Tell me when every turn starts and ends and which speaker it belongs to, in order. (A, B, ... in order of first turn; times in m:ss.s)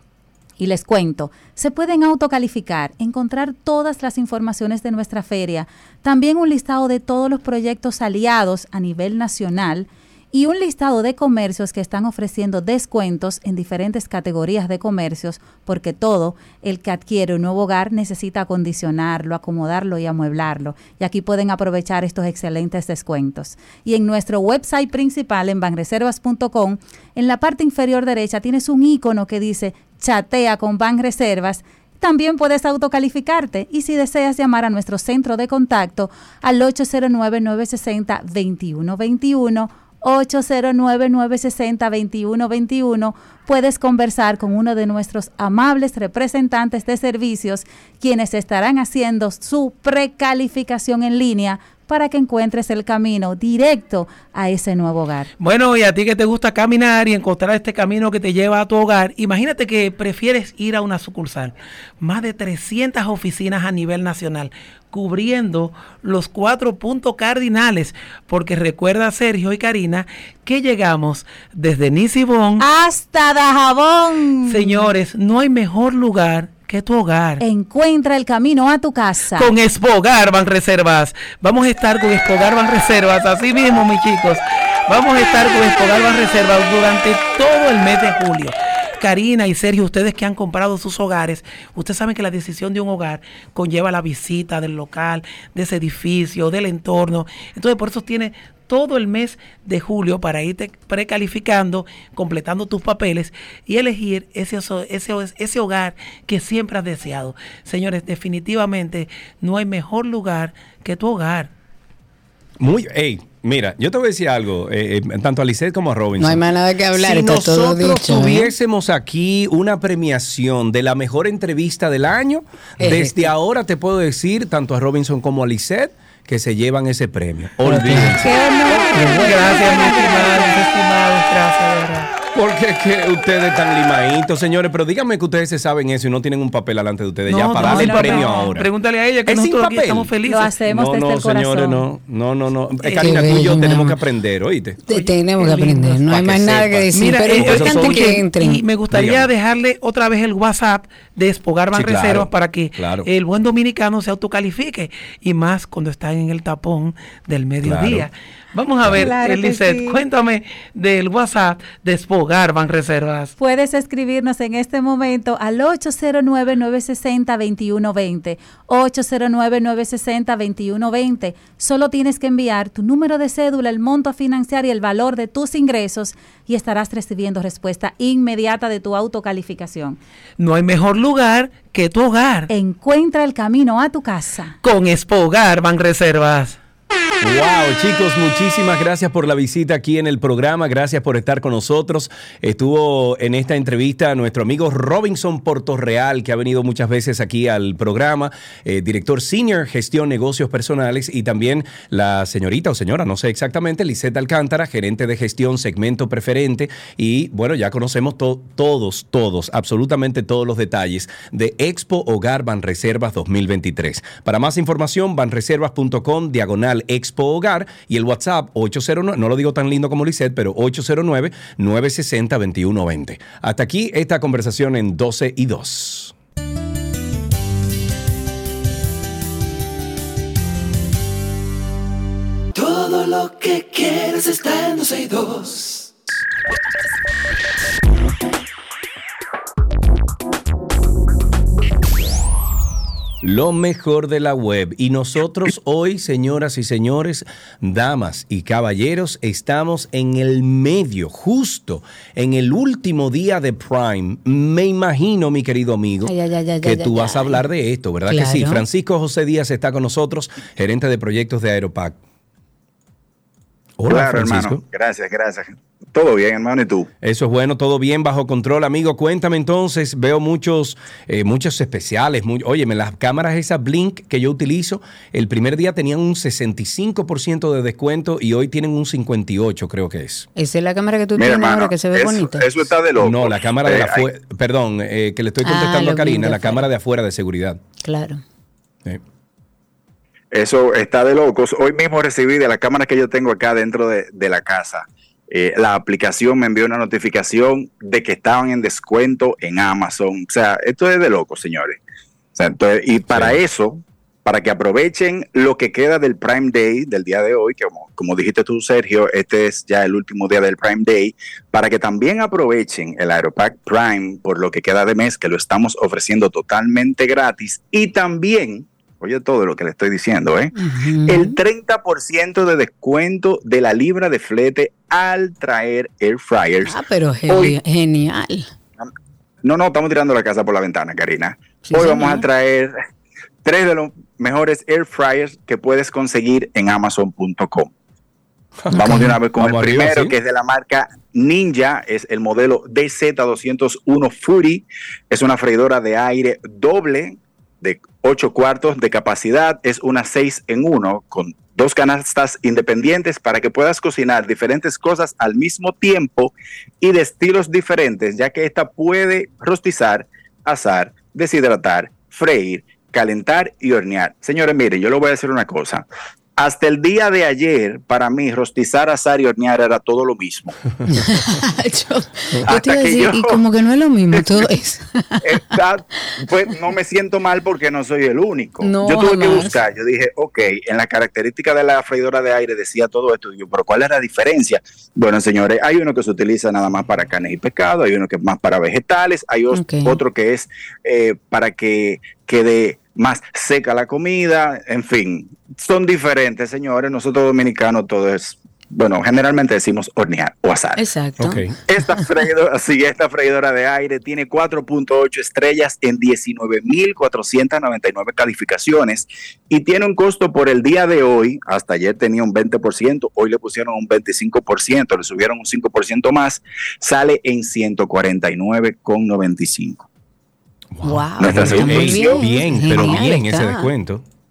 0:00.6-0:55.3 A
0:55.4-1:12.6 B
1:12.6-1:14.9 A
1:14.5-1:17.4 B
1:17.4-1:19.5 A
1:19.4-1:51.5 B
1:52.6-2:08.4 C
1:56.2-1:58.5 D
2:02.8-2:03.3 D
2:07.7-2:08.1 D
2:08.0-2:10.7 A
2:08.7-2:12.1 B
2:12.4-2:18.7 C
2:17.3-2:20.6 B
2:17.6-2:18.6 A
2:19.3-2:24.8 C
2:20.3-2:21.9 A
2:22.9-2:23.1 A
2:23.0-2:24.0 D
2:24.9-2:26.0 B
2:24.9-2:28.6 D
2:26.1-2:28.1 C
2:26.9-2:43.4 B
2:28.9-2:29.3 C
2:31.7-2:33.1 C
2:37.6-2:38.1 C
2:38.9-2:40.0 A
2:43.4-3:00.0 A
3:00.4-3:02.5 B
3:02.5-3:04.6 A
3:04.6-3:06.6 B
3:07.2-3:46.1 C
3:52.6-3:55.9 E
4:03.2-4:22.0 C
4:16.0-4:17.4 D
4:18.1-4:18.6 D
4:23.8-4:24.6 C
4:23.9-4:26.9 F
4:27.0-4:40.3 C
4:40.4-4:42.7 D
4:41.2-4:44.1 F
4:43.0-4:47.6 C
4:45.4-4:46.7 D
4:47.8-4:48.2 D
4:50.3-5:01.8 F
5:02.4-5:20.5 F
5:03.1-5:03.4 C
5:20.6-5:21.4 D
5:21.1-5:27.6 F
5:26.6-5:28.5 D
5:29.4-5:32.8 F
5:31.7-5:32.3 D
5:33.4-5:37.7 F
5:38.6-5:40.2 C
5:38.7-6:05.8 F
5:38.8-5:39.1 D
6:06.4-6:10.5 F
6:10.9-6:15.2 D
6:12.5-6:13.4 F
6:14.2-6:14.4 F
6:15.2-6:40.8 F
6:18.6-6:19.5 D
6:29.5-6:30.0 D
6:40.8-6:41.4 D
6:41.2-6:41.6 C
6:41.7-6:59.8 F
7:00.7-7:04.0 C
7:00.8-7:03.7 D
7:01.2-7:03.0 F